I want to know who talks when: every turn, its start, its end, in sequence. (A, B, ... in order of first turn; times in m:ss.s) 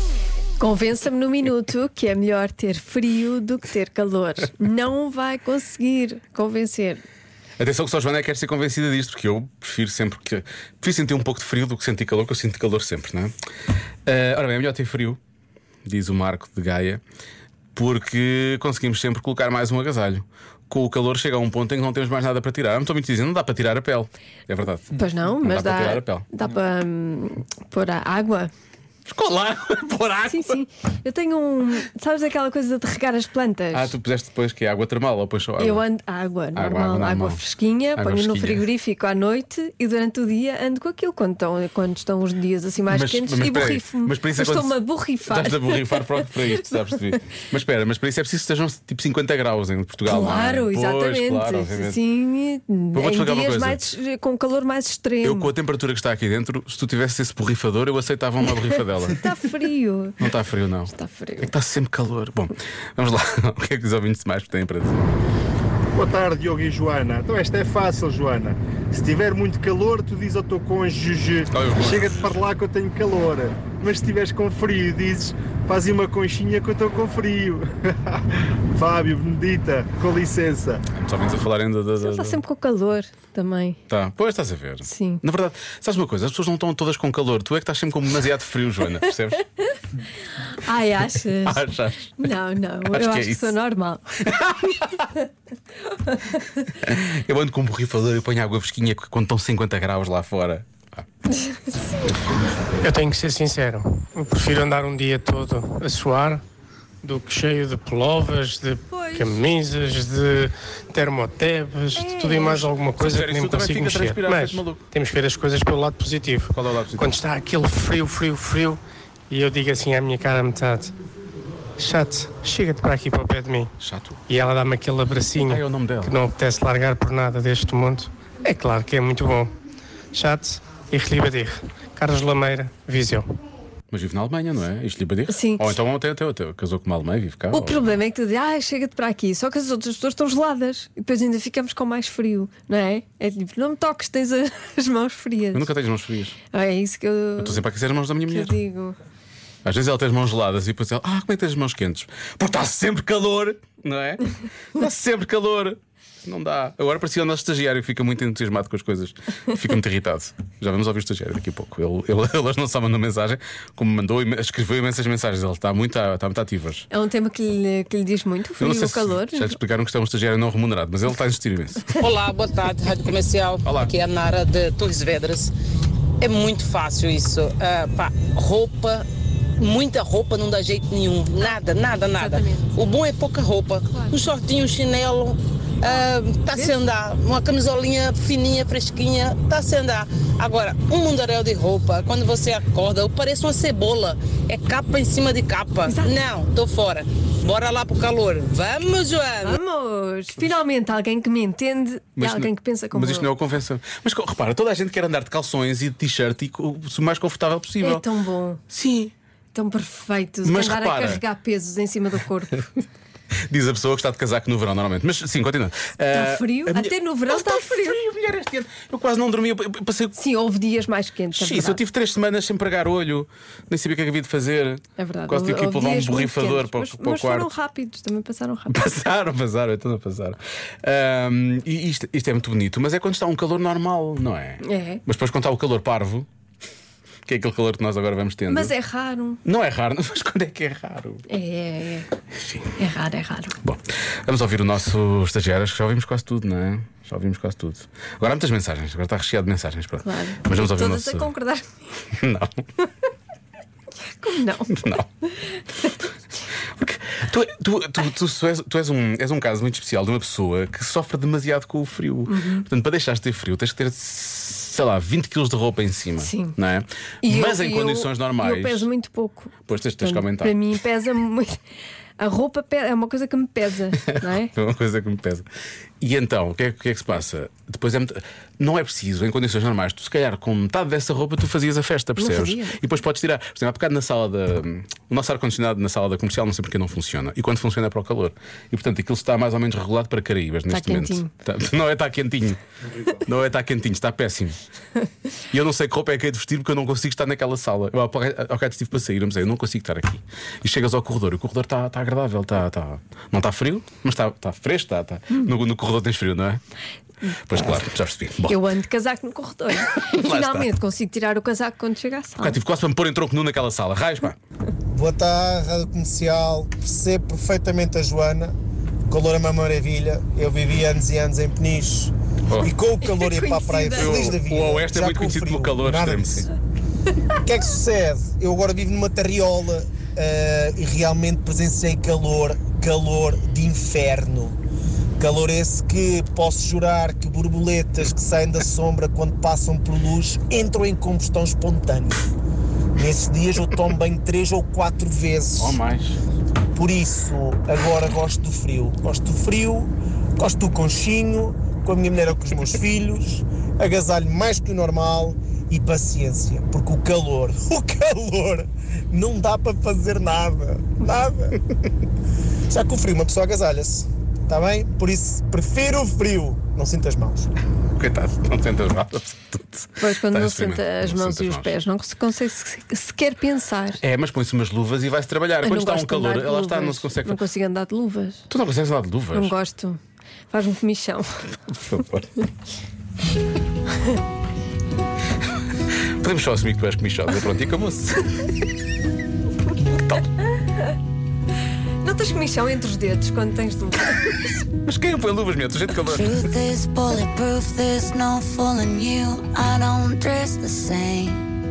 0:00.6-0:07.0 A
0:07.6-0:13.3 B
0:14.0-0:15.2 B
0:15.8-0:17.0 B
0:17.7-0:26.3 B
0:24.9-0:28.5 A
0:29.1-0:30.6 B
0:30.2-0:33.9 A
0:33.7-0:35.8 B
0:35.6-0:47.1 A
0:36.5-0:37.4 B
0:38.0-0:38.6 B
0:42.9-0:52.0 B
0:50.0-0:55.5 A
0:52.9-0:53.8 B
0:55.2-0:59.3 B
0:58.6-1:00.3 A
1:00.2-1:05.0 B
1:00.9-1:01.5 A
1:06.0-1:17.6 C
1:11.5-1:12.4 B
1:18.8-1:20.8 C
1:20.9-1:22.4 B
1:22.0-1:23.8 A
1:23.9-1:29.4 B
1:24.8-1:25.2 A
1:30.3-1:34.3 A
1:31.4-1:32.2 B
1:32.8-1:33.5 B
1:34.3-1:35.0 B
1:36.7-1:41.0 B
1:42.8-1:46.4 D
1:47.0-2:00.9 D
1:48.9-1:49.4 A
1:51.9-1:52.7 A
1:53.0-1:54.8 B
1:56.5-1:57.2 B
2:01.8-2:03.7 D
2:03.8-2:04.2 B
2:04.3-2:09.5 D
2:05.4-2:06.2 B
2:10.1-2:13.2 D
2:13.9-2:17.9 B
2:15.3-2:15.7 A
2:17.5-2:25.7 A
2:25.5-2:26.4 B
2:26.5-2:27.6 A
2:27.4-2:28.5 B
2:28.3-2:29.0 A
2:29.6-2:46.8 B
2:46.9-2:49.6 A
2:48.6-2:52.0 B
2:52.0-2:55.5 E
2:53.6-2:53.9 B
2:56.2-2:59.0 E
2:59.6-3:19.6 E
3:01.4-3:02.8 A
3:03.9-3:04.2 A
3:05.9-3:06.8 A
3:15.8-3:16.2 A
3:19.4-3:23.3 A
3:22.2-3:28.0 B
3:27.8-3:28.6 A
3:28.7-3:29.1 B
3:29.5-3:32.7 A
3:30.4-3:31.2 B
3:33.5-3:40.2 B
3:36.1-3:38.0 A
3:40.2-3:41.8 A
3:41.3-3:47.5 B
3:45.0-3:48.8 A
3:48.7-3:56.3 B
3:54.6-3:55.0 A
3:57.2-3:58.7 B
3:58.5-3:59.4 A
3:59.4-4:01.2 B
4:01.3-4:02.1 A
4:02.4-4:02.7 B
4:02.8-4:03.6 A
4:03.6-4:11.3 B
4:10.0-4:12.0 A
4:12.1-4:12.5 B
4:14.0-4:15.5 A
4:14.7-4:15.1 B
4:16.8-4:28.9 B
4:22.3-4:22.6 A
4:26.2-4:26.6 A
4:27.2-4:31.6 A
4:29.7-4:30.6 B
4:32.2-4:34.5 A
4:34.0-4:35.4 B
4:36.0-4:54.6 B
4:42.2-4:42.8 A
4:50.7-4:51.3 A
4:55.5-5:06.6 B
5:07.5-5:08.6 B
5:08.4-5:12.6 A
5:09.9-5:10.7 B
5:12.4-5:14.4 B
5:14.9-5:18.5 F
5:19.1-5:26.5 F
5:23.0-5:24.4 A
5:23.9-5:26.5 B
5:27.4-5:34.6 F
5:35.2-5:42.2 F
5:43.0-5:45.8 F
5:45.6-5:46.2 B
5:46.7-6:01.6 F
6:02.7-6:07.5 F
6:08.0-6:11.8 B
6:10.0-6:14.0 A
6:14.0-6:17.4 B
6:15.6-6:18.5 A
6:18.5-6:19.5 B
6:19.3-6:20.0 A
6:20.5-6:21.5 A
6:21.7-6:22.3 B
6:26.2-6:28.4 B
6:29.9-6:30.2 B
6:32.0-6:34.5 A
6:34.8-6:36.5 B
6:36.1-6:41.4 G